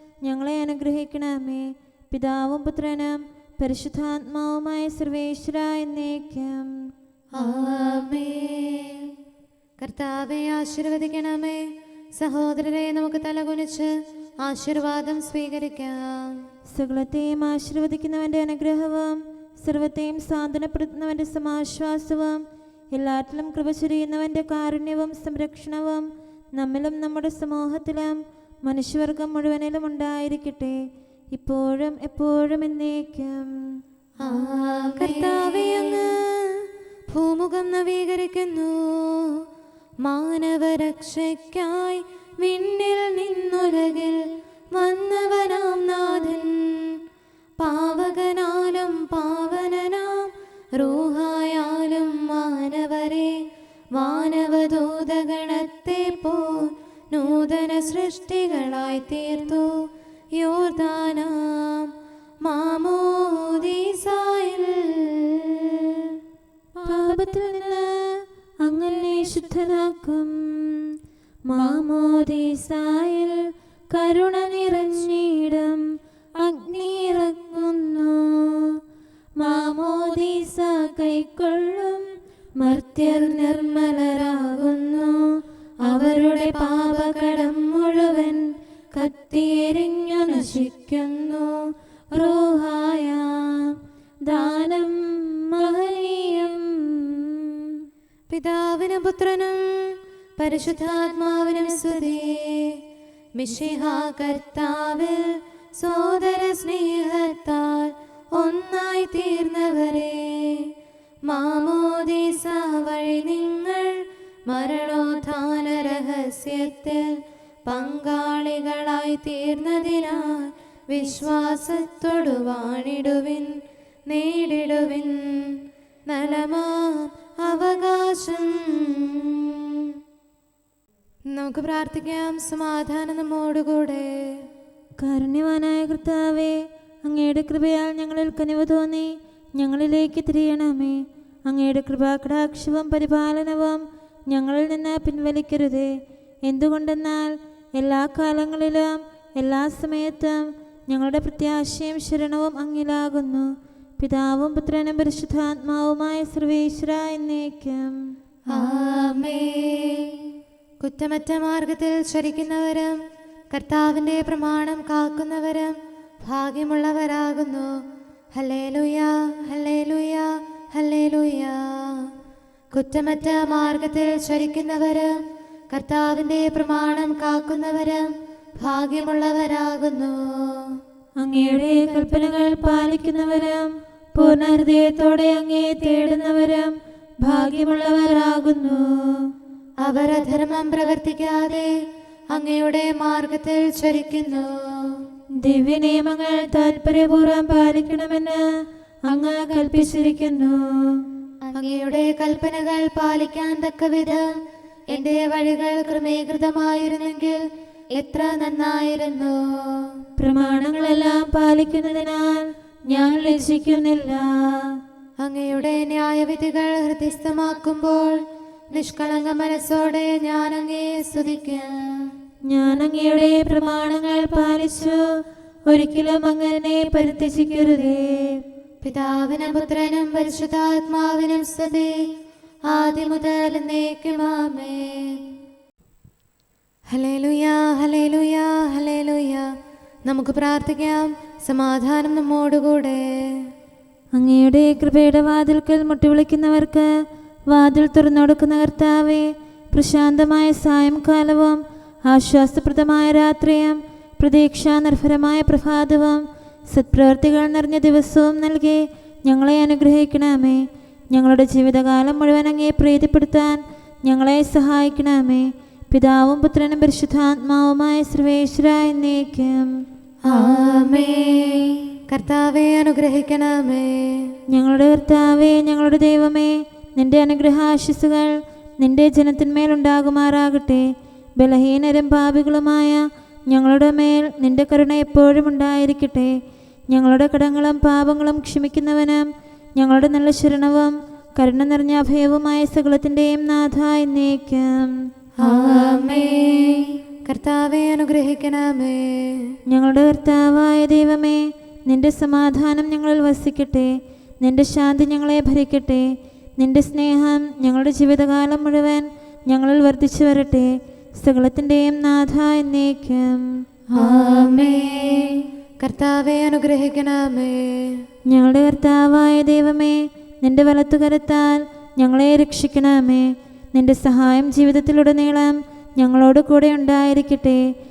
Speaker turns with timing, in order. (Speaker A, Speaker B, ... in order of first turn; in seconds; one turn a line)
Speaker A: 0.2-6.7
Speaker B: 7.4-9.0
Speaker B: 9.8-11.7
Speaker B: 12.2-16.4
Speaker A: 16.7-30.8
Speaker A: 31.3-33.5
Speaker B: 34.2-36.1
Speaker A: 35.0-36.1
Speaker B: 37.1-39.3
Speaker B: 40.0-44.2
Speaker B: 44.7-46.9
Speaker B: 47.6-53.3
Speaker B: 53.9-59.7
Speaker B: 60.4-61.9
Speaker B: 62.4-65.8
Speaker A: 66.8-71.0
Speaker A: 71.5-75.8
Speaker A: 76.4-78.8
Speaker A: 79.4-85.3
Speaker A: 85.8-91.6
Speaker A: 92.1-97.8
Speaker B: 98.3-102.8
Speaker B: 103.4-110.7
Speaker B: 111.3-117.1
Speaker B: 117.7-123.6
Speaker B: 124.1-125.5
Speaker B: 126.1-129.7
Speaker B: 131.3-134.1
Speaker A: 135.0-158.0
Speaker B: 158.5-160.2
Speaker B: 160.8-163.0
Speaker B: 163.5-167.7
Speaker B: 168.3-172.1
Speaker B: 172.7-175.2
Speaker B: 175.7-180.8
Speaker A: 181.2-189.3
Speaker B: 189.8-191.7
Speaker B: 192.3-195.0
Speaker A: 195.4-198.4
Speaker A: 199.1-201.0
Speaker B: 201.5-204.3
Speaker B: 204.9-207.4
Speaker B: 207.9-209.9
Speaker A: 210.2-214.8
Speaker B: 215.2-218.2
Speaker B: 218.7-221.8
Speaker A: 222.5-225.0
Speaker A: 225.7-228.4
Speaker B: 228.8-231.9
Speaker B: 232.7-235.1
Speaker B: 236.9-239.5
Speaker B: 240.1-243.4
Speaker A: 244.2-246.9
Speaker A: 247.5-269.7
Speaker B: 270.3-274.3
Speaker A: 274.5-280.8
Speaker A: 281.4-286.3
Speaker A: 286.9-294.9
Speaker B: 295.4-299.5
Speaker A: 299.7-303.9
Speaker A: 304.4-306.1
Speaker A: 306.6-313.5
Speaker B: 314.0-315.3
Speaker B: 315.8-318.0
Speaker A: 318.3-327.6